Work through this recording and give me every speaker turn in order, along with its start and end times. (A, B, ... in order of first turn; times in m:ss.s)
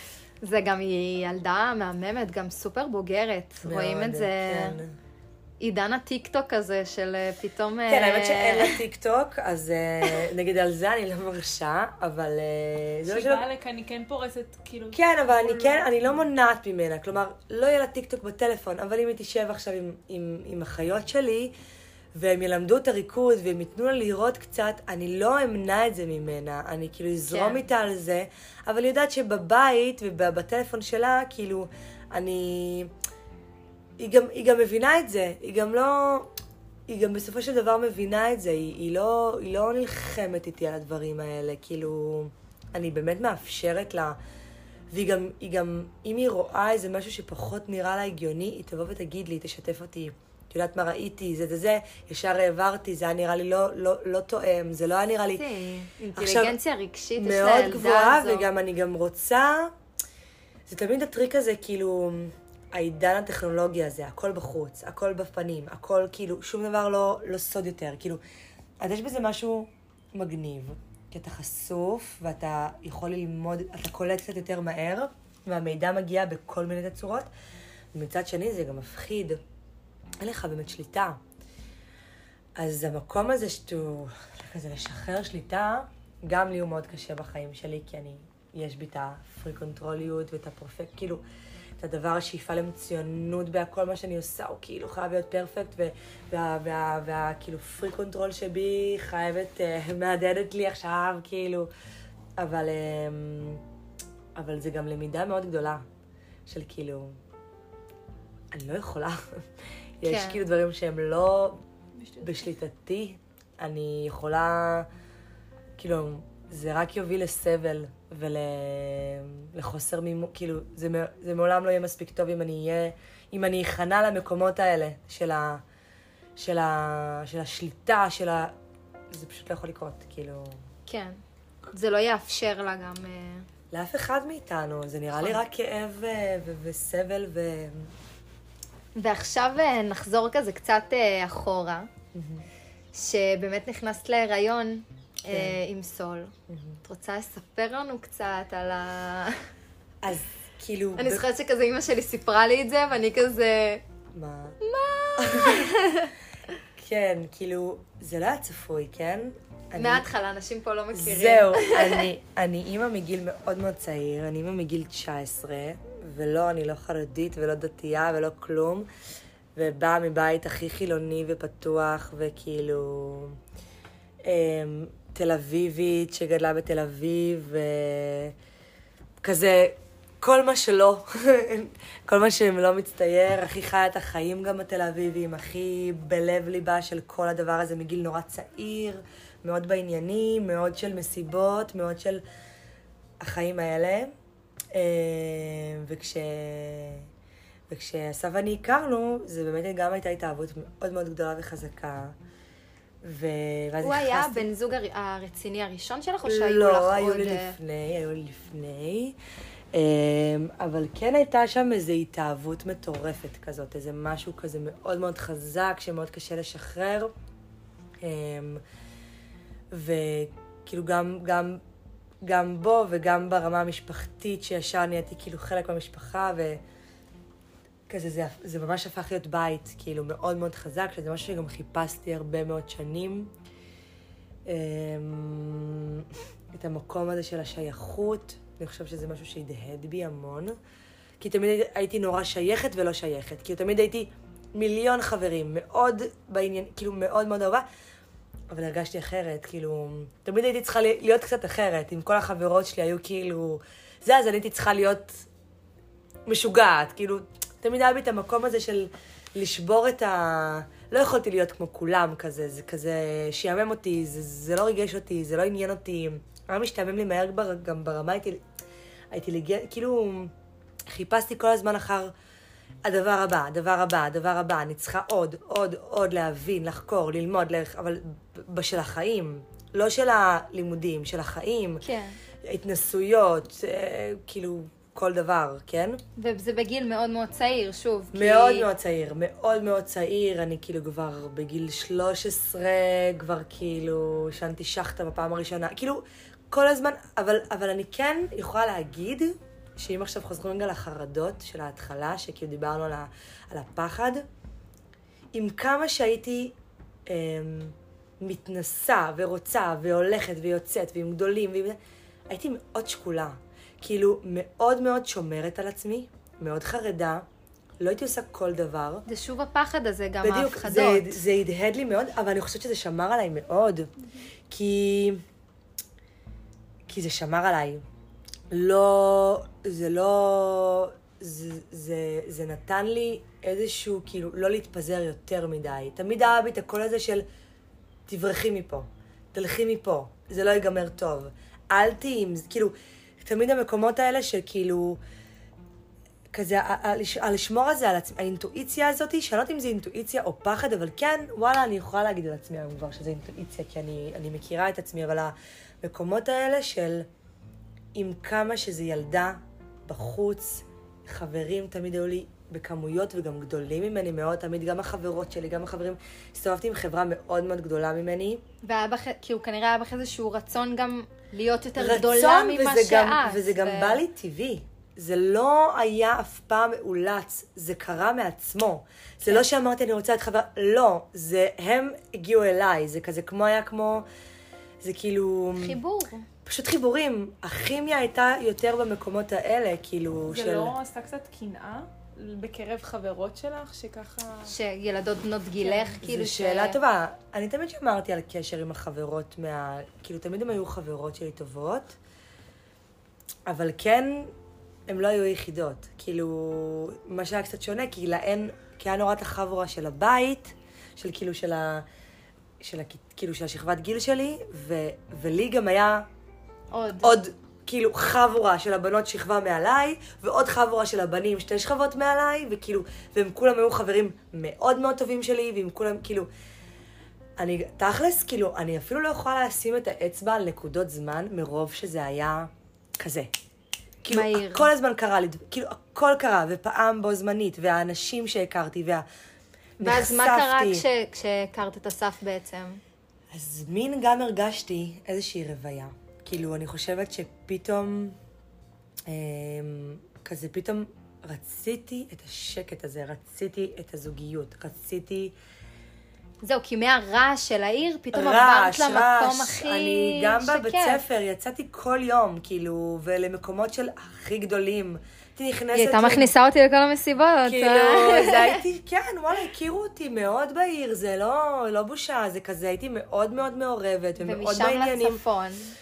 0:00.4-0:04.8 A
0:03.6-0:05.0 B
0:05.6-0:08.8 A
0:07.9-0:13.4 B
0:13.1-0:16.0 C
0:14.9-0:21.5 B
0:22.1-0:32.9 B
0:27.3-0:27.6 A
0:34.0-0:36.3 B
0:36.9-0:44.2 B
0:44.9-0:55.4 B
0:55.3-0:58.4 A
0:56.1-0:56.6 B
0:57.2-0:59.7 B
1:00.7-1:08.2 B
1:08.8-1:17.3 B
1:17.9-1:19.4 B
1:20.2-1:21.2 B
1:22.6-1:31.2 B
1:31.8-1:41.7 B
1:42.4-1:43.6 B
1:44.3-1:45.8 B
1:46.4-1:47.2 B
1:48.5-1:49.4 B
1:50.0-1:51.6 B
1:50.0-1:50.4 A
1:52.0-1:52.5 C
1:52.2-1:54.9 B
1:55.8-2:05.6 B
2:06.4-2:08.5 B
2:09.1-2:10.6 B
2:10.9-2:11.2 A
2:11.7-2:13.4 A
2:13.7-2:17.9 B
2:18.9-2:21.9 A
2:22.1-2:22.4 B
2:22.9-2:29.4 A
2:25.3-2:25.6 B
2:26.5-2:26.8 B
2:30.0-2:31.2 B
2:31.0-2:33.8 A
2:34.1-2:34.6 B
2:34.6-2:36.1 A
2:35.2-2:35.8 B
2:36.8-2:40.1 B
2:39.8-2:42.1 A
2:40.9-2:48.9 B
2:49.5-2:53.4 B
2:54.2-2:58.3 B
2:59.2-3:12.2 B
3:13.2-3:14.1 B
3:14.7-3:17.1 B
3:17.7-3:22.1 B
3:23.0-3:24.5 B
3:23.8-3:27.6 A
3:26.2-3:29.2 B
3:29.7-3:37.1 B
3:38.0-3:38.6 B
3:39.7-3:41.6 B
3:42.2-3:46.6 B
3:47.9-3:53.3 B
3:54.5-4:00.6 B
4:01.2-4:07.6 B
4:08.5-4:15.3 B
4:16.3-4:28.4 B
4:29.1-4:30.3 B
4:30.9-4:32.1 B
4:32.8-4:41.8 B
4:41.8-4:42.2 A
4:42.4-4:46.0 B
4:46.2-4:48.7 A
4:48.1-5:04.2 B
5:05.3-5:06.5 B
5:07.1-5:11.8 B
5:12.3-5:17.2 B
5:17.8-5:19.0 B
5:19.0-5:21.2 A
5:20.2-5:23.9 B
5:24.5-5:25.2 B
5:26.9-5:27.8 B
5:28.5-5:37.2 B
5:38.1-5:45.0 B
5:46.3-5:57.1 B
5:57.9-6:08.4 B
6:08.6-6:14.0 A
6:11.8-6:24.0 B
6:24.8-6:25.8 B
6:25.5-6:26.2 A
6:26.4-6:30.8 B
6:30.3-6:34.5 C
6:34.5-6:36.8 A
6:35.6-6:35.9 C
6:36.0-6:42.0 B
6:43.5-6:44.3 B
6:44.9-6:51.8 B
6:52.6-6:56.0 B
6:56.7-6:57.2 A
6:57.0-7:06.3 B
7:07.4-7:13.3 B
7:14.0-7:19.0 B
7:14.1-7:14.7 A
7:19.8-7:22.8 A
7:19.8-7:20.8 B
7:23.3-7:28.2 B
7:29.1-7:35.3 B
7:36.4-7:41.0 A
7:38.1-7:46.3 B
7:45.7-7:48.6 A
7:47.4-7:55.2 B
7:54.2-7:55.7 A